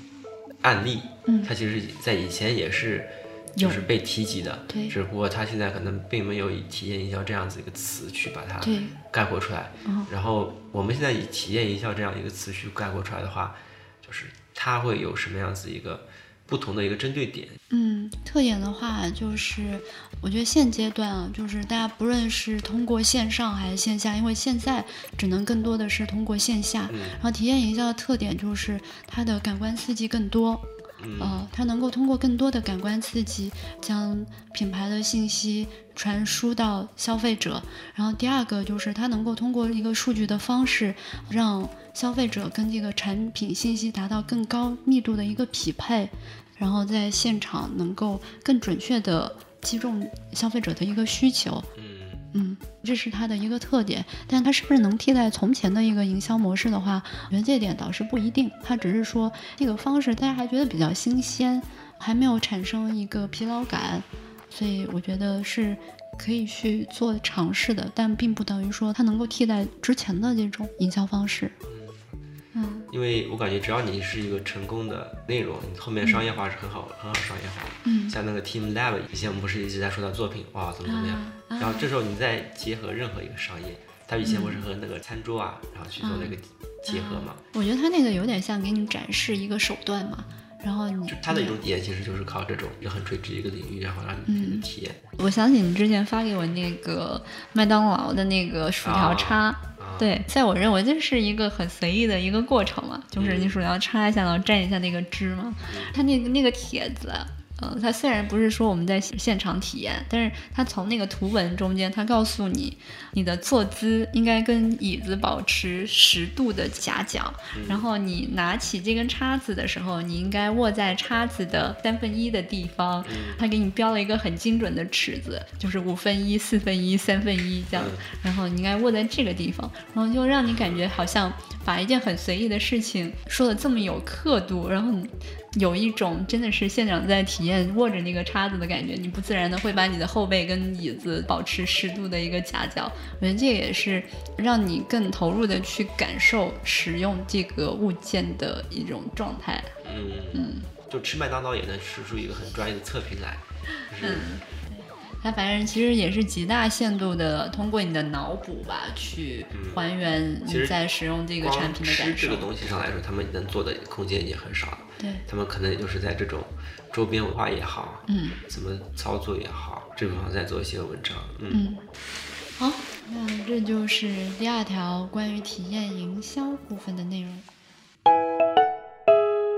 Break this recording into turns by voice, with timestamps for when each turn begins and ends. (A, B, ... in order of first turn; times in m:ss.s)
0:00.6-0:17.6 A
0:04.7-0:05.0 B
0:08.6-0:09.0 B
0:09.8-0:10.1 B
0:17.7-0:30.6 B
0:26.9-0:27.2 A
0:31.0-0:31.5 A
0:31.2-0:51.7 B
0:51.8-0:52.3 A
0:52.3-1:11.6 B
1:11.6-1:12.1 A
1:12.5-1:12.9 B
1:12.9-1:27.4 A
1:17.8-1:18.2 B
1:20.8-1:21.9 B
1:24.2-1:24.6 B
1:26.0-1:26.4 B
1:26.9-1:31.6 B
1:31.1-1:35.0 A
1:34.3-2:29.7 B
1:38.8-1:40.1 A
1:43.2-1:43.6 A
1:45.7-1:45.9 A
1:57.5-1:57.9 A
2:03.0-2:03.4 A
2:07.7-2:08.0 A
2:10.5-2:10.8 A
2:29.8-2:34.3 A
2:30.3-2:30.7 B
2:34.0-2:42.5 B
2:39.5-2:39.8 A
2:40.4-2:40.8 A
2:41.4-2:51.7 A
2:45.0-2:45.2 B
2:48.1-2:48.4 B
2:51.5-2:51.8 B
2:52.6-2:57.5 B